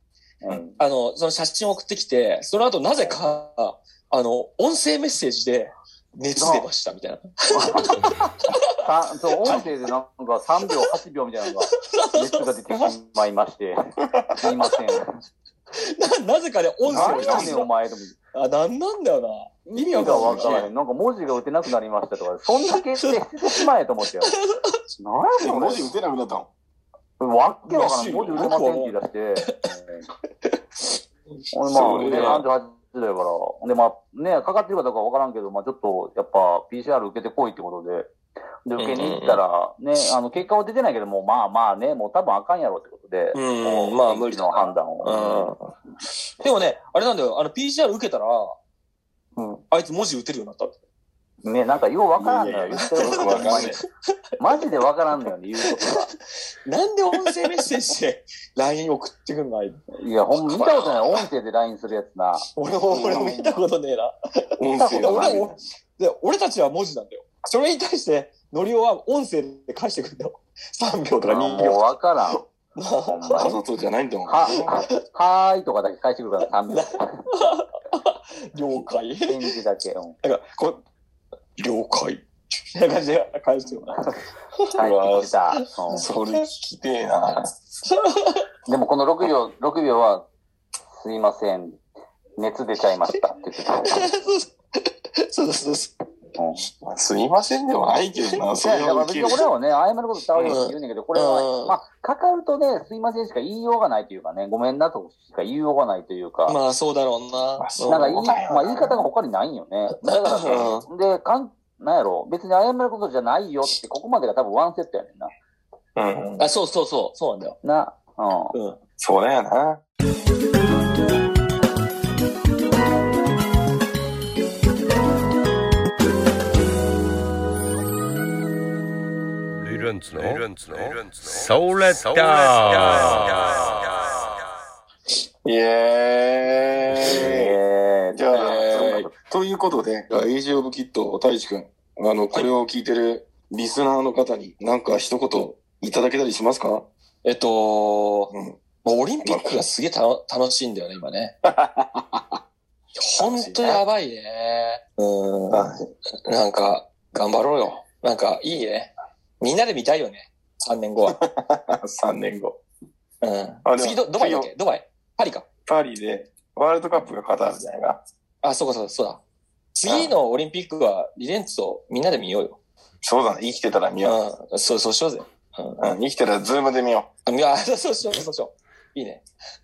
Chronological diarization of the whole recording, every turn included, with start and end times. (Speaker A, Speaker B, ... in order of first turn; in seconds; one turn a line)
Speaker A: 0.4-0.8
Speaker B: 0.8-8.7
Speaker A: 6.4-6.7
Speaker A: 7.6-8.1
Speaker A: 8.8-13.8
Speaker B: 9.4-9.7
Speaker B: 11.7-12.9
Speaker A: 14.4-15.1
Speaker B: 15.8-17.7
Speaker C: 16.9-17.6
Speaker A: 16.9-18.2
Speaker B: 18.4-20.7
Speaker A: 19.7-24.4
Speaker C: 20.0-20.6
Speaker B: 24.6-24.8
Speaker A: 25.0-25.9
Speaker C: 25.4-26.5
Speaker A: 27.2-30.1
Speaker B: 27.7-29.5
Speaker B: 30.4-30.8
Speaker A: 31.5-38.1
Speaker C: 31.7-32.5
Speaker B: 31.9-32.5
Speaker A: 38.7-45.5
Speaker B: 38.8-39.4
Speaker B: 43.3-45.7
Speaker B: 46.4-48.5
Speaker B: 49.4-50.8
Speaker A: 51.4-53.8
Speaker C: 52.2-53.8
Speaker B: 53.0-53.8
Speaker A: 54.4-56.1
Speaker B: 55.7-56.1
Speaker B: 56.6-59.8
Speaker A: 60.0-62.5
Speaker B: 60.4-61.3
Speaker B: 62.6-71.9
Speaker C: 62.9-63.5
Speaker C: 64.6-65.6
Speaker A: 71.2-72.4
Speaker B: 72.8-73.5
Speaker A: 73.0-73.6
Speaker C: 73.4-74.7
Speaker A: 74.3-77.3
Speaker B: 76.7-79.4
Speaker A: 79.3-80.2
Speaker B: 80.2-80.8
Speaker B: 81.6-82.2
Speaker B: 82.7-84.0
Speaker A: 84.7-86.1
Speaker C: 84.8-85.3
Speaker C: 85.9-87.5
Speaker B: 86.0-86.4
Speaker B: 87.9-88.4
Speaker A: 88.7-90.2
Speaker A: 90.9-91.8
Speaker A: 92.4-94.0
Speaker B: 93.9-94.5
Speaker B: 95.2-95.9
Speaker A: 96.4-96.7
Speaker C: 96.8-99.4
Speaker A: 98.6-106.6
Speaker B: 100.4-101.8
Speaker B: 106.5-108.1
Speaker C: 107.6-109.0
Speaker A: 107.9-115.3
Speaker B: 110.0-110.9
Speaker C: 110.4-110.8
Speaker C: 116.0-116.5
Speaker B: 116.4-117.6
Speaker A: 117.6-118.5
Speaker C: 119.0-119.8
Speaker D: 129.6-134.2
Speaker C: 135.4-137.6
Speaker D: 136.9-137.3
Speaker A: 137.0-138.3
Speaker C: 138.1-146.9
Speaker B: 138.3-139.1
Speaker B: 147.2-148.3
Speaker C: 148.3-148.6
Speaker B: 148.8-151.3
Speaker C: 149.2-149.6
Speaker C: 151.5-152.3
Speaker B: 153.0-155.7
Speaker C: 153.2-153.8
Speaker C: 155.5-155.9
Speaker B: 156.3-161.2
Speaker C: 161.1-162.6
Speaker B: 163.2-165.5
Speaker C: 163.7-164.5
Speaker C: 165.7-168.0
Speaker B: 168.4-169.2
Speaker B: 169.8-172.6
Speaker C: 169.9-170.1
Speaker C: 173.0-174.2
Speaker B: 174.0-175.8
Speaker C: 175.8-177.1
Speaker B: 177.3-179.2